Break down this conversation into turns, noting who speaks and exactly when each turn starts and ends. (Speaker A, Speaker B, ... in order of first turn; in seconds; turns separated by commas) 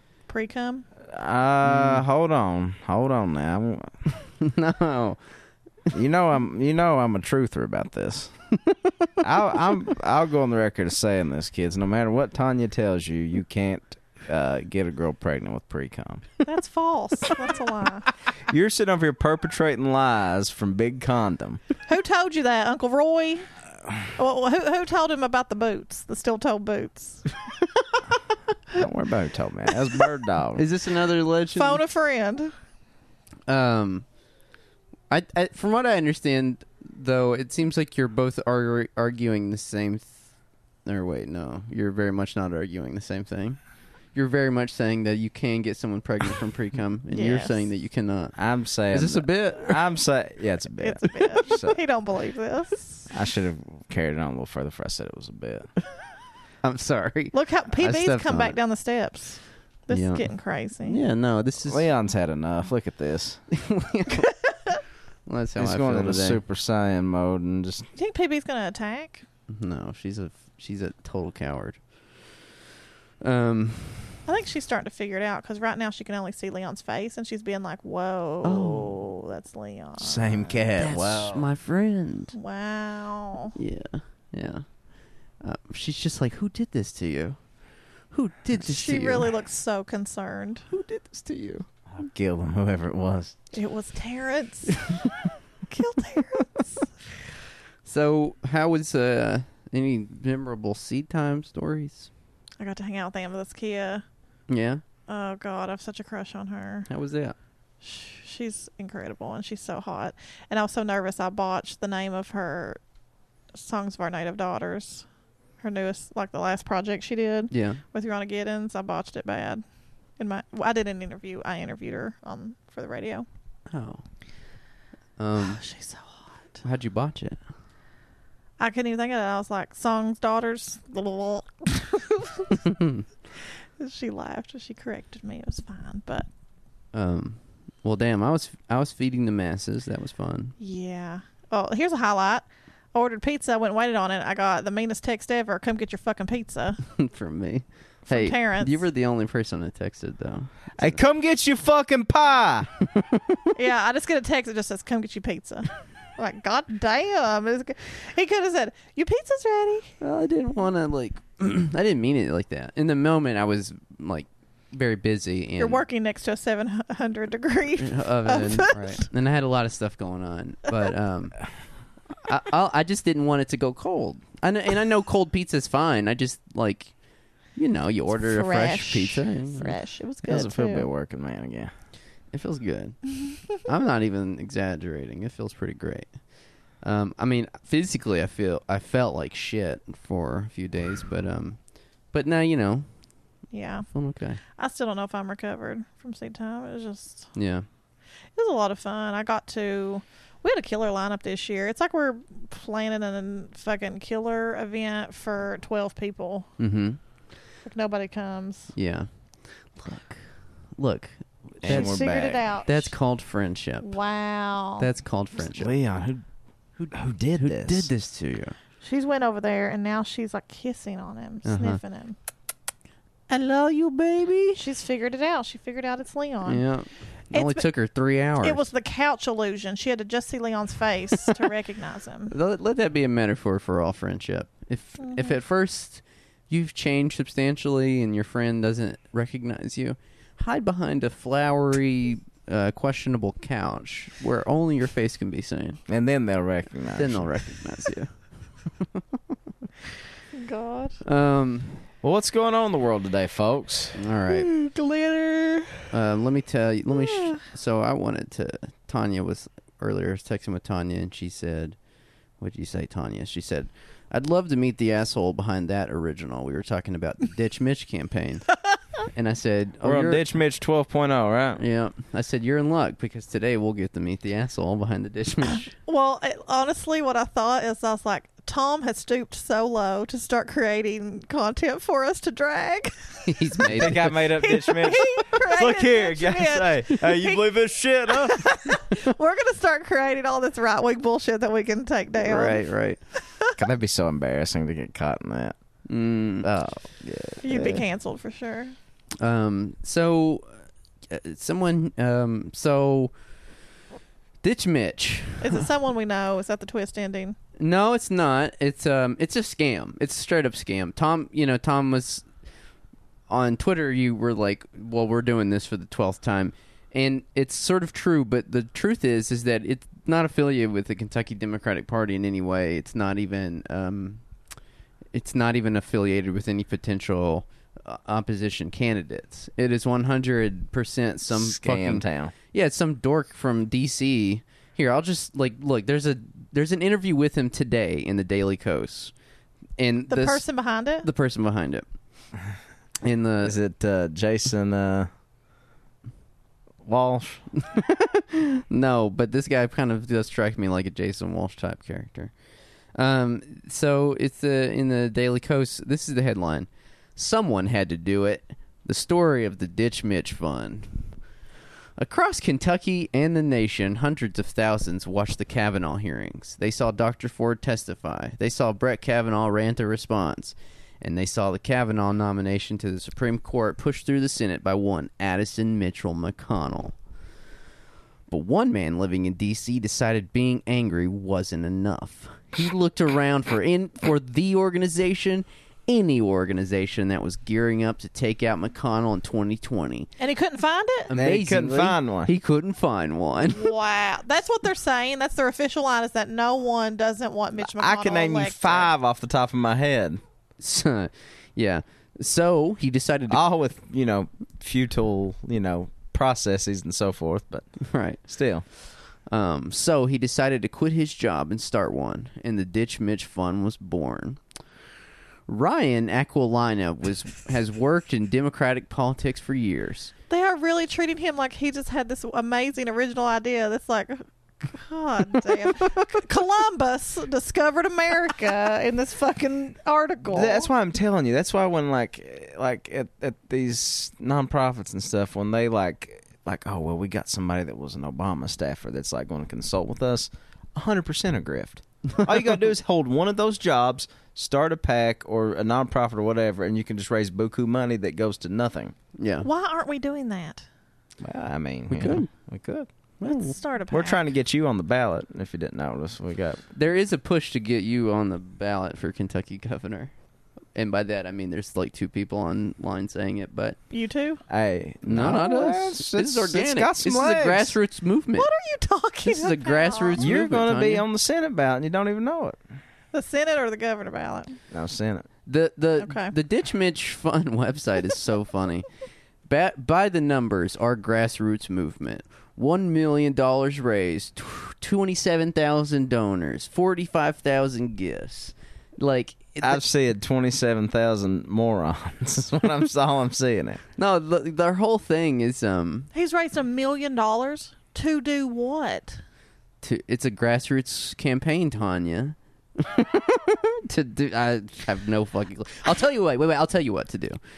Speaker A: 0.3-0.8, Speaker B: 1.1-3.9, Speaker C: 1.6-2.0, Speaker C: 4.4-5.2, Speaker B: 5.9-8.3, Speaker B: 9.2-16.3, Speaker A: 16.4-18.1, Speaker B: 18.5-21.6, Speaker A: 21.9-23.5, Speaker A: 24.1-27.3, Speaker B: 28.7-30.6, Speaker C: 30.6-31.8, Speaker A: 31.5-32.5, Speaker C: 33.5-34.0, Speaker C: 35.1-40.3, Speaker C: 40.8-43.6, Speaker C: 44.1-48.4, Speaker A: 47.1-47.6, Speaker B: 48.4-51.8, Speaker C: 48.9-49.9, Speaker A: 50.8-53.1, Speaker B: 53.1-55.7, Speaker C: 56.6-58.6, Speaker A: 57.3-61.0, Speaker C: 59.9-61.8, Speaker B: 61.6-63.4, Speaker C: 63.5-64.5, Speaker C: 65.2-66.4, Speaker B: 65.6-67.9, Speaker A: 68.0-69.2, Speaker C: 69.5-72.3, Speaker C: 73.2-74.2, Speaker A: 74.2-80.6, Speaker C: 78.4-79.0, Speaker B: 80.0-81.5, Speaker C: 80.8-82.3, Speaker A: 82.3-83.5, Speaker C: 83.5-84.7, Speaker C: 85.4-87.4, Speaker C: 88.1-89.3, Speaker A: 88.6-90.6, Speaker C: 90.7-91.7, Speaker B: 91.9-93.3, Speaker A: 93.5-95.0, Speaker A: 95.7-96.9, Speaker C: 97.8-102.1, Speaker A: 102.6-104.0, Speaker C: 104.5-104.8, Speaker A: 105.1-106.9, Speaker C: 106.9-107.3, Speaker A: 107.8-112.8, Speaker A: 113.5-115.1, Speaker A: 115.6-119.6, Speaker C: 117.5-117.8, Speaker A: 120.2-123.2, Speaker C: 123.7-124.0, Speaker C: 125.2-125.7, Speaker A: 125.4-126.2, Speaker C: 126.6-127.4, Speaker A: 128.6-132.6, Speaker A: 133.4-136.3, Speaker C: 136.9-140.6, Speaker A: 140.6-146.8, Speaker C: 146.9-151.0, Speaker A: 148.1-148.8, Speaker B: 150.8-152.7, Speaker C: 152.9-153.2, Speaker A: 153.5-159.9, Speaker C: 160.0-165.8, Speaker A: 165.6-169.0, Speaker C: 167.8-171.5, Speaker C: 172.2-176.9, Speaker C: 177.5-179.8, Speaker A: 178.2-180.9, Speaker B: 180.2-181.7, Speaker C: 182.3-186.1, Speaker C: 186.8-192.9, Speaker A: 193.5-193.9, Speaker C: 193.9-194.4, Speaker A: 194.6-197.3, Speaker C: 197.3-197.7, Speaker A: 198.3-206.5, Speaker C: 206.6-207.0, Speaker A: 207.6-208.7, Speaker C: 208.7-209.1, Speaker C: 209.7-212.1, Speaker B: 211.6-212.4, Speaker A: 211.7-212.9, Speaker C: 212.7-213.9, Speaker A: 213.8-214.9, Speaker C: 214.8-215.7, Speaker B: 215.4-216.2, Speaker C: 216.8-218.6, Speaker B: 216.9-217.9, Speaker A: 218.8-222.2, Speaker C: 221.4-221.8, Speaker C: 223.3-224.6, Speaker A: 224.5-226.6, Speaker C: 226.4-228.7, Speaker A: 227.3-227.7, Speaker A: 228.4-232.3, Speaker C: 232.3-245.8, Speaker A: 235.0-235.3, Speaker B: 245.9-247.3, Speaker C: 246.9-248.1, Speaker C: 248.8-249.0, Speaker A: 250.3-251.0, Speaker C: 251.0-251.8, Speaker B: 252.0-254.0, Speaker C: 253.9-254.5, Speaker A: 254.8-255.3, Speaker C: 255.9-261.8, Speaker C: 262.4-270.2, Speaker B: 269.8-271.6, Speaker C: 271.6-275.7, Speaker A: 275.9-287.4, Speaker C: 283.3-284.3, Speaker B: 283.7-288.5, Speaker A: 288.1-292.6, Speaker C: 292.2-293.0, Speaker B: 293.6-295.5, Speaker C: 295.9-297.8, Speaker B: 296.9-297.7, Speaker A: 297.4-298.7, Speaker C: 299.2-300.5, Speaker C: 301.1-303.1, Speaker C: 304.4-305.6, Speaker A: 305.4-307.4, Speaker C: 307.6-312.2, Speaker C: 313.3-324.2, Speaker C: 325.1-339.1, Speaker B: 331.3-332.3, Speaker C: 339.8-340.4, Speaker A: 340.1-341.1, Speaker C: 341.0-341.8, Speaker C: 343.0-343.6, Speaker B: 343.4-345.1, Speaker B: 346.8-347.5, Speaker C: 347.6-352.3, Speaker C: 352.9-361.1, Speaker C: 362.0-376.9, Speaker C: 378.3-390.1, Speaker A: 390.2-391.1, Speaker C: 391.1-393.7, Speaker B: 391.1-392.3, Speaker A: 393.5-398.9, Speaker B: 397.6-400.2, Speaker C: 400.6-403.4, Speaker B: 403.3-407.7, Speaker C: 407.9-408.2, Speaker B: 408.2-408.6, Speaker C: 409.3-414.4, Speaker C: 415.5-420.1, Speaker A: 420.3-430.7, Speaker B: 430.3-448.9, Speaker C: 449.2-449.5, Speaker A: 449.4-450.6, Speaker B: 451.2-452.9, Speaker C: 451.9-452.3, Speaker C: 453.2-453.6, Speaker A: 453.2-454.2, Speaker B: 453.9-456.6, Speaker C: 456.7-460.1, Speaker C: 460.7-463.8, Speaker A: 463.9-464.4, Speaker B: 464.5-467.8, Speaker C: 465.0-468.5, Speaker A: 468.4-470.2, Speaker C: 469.2-471.0, Speaker B: 470.2-472.6, Speaker A: 473.1-474.6, Speaker B: 474.7-475.3, Speaker C: 475.4-478.9, Speaker A: 476.0-476.3, Speaker C: 479.5-489.8, Speaker B: 489.6-493.8, Speaker C: 494.0-496.1, Speaker A: 496.1-499.2, Speaker C: 499.8-507.4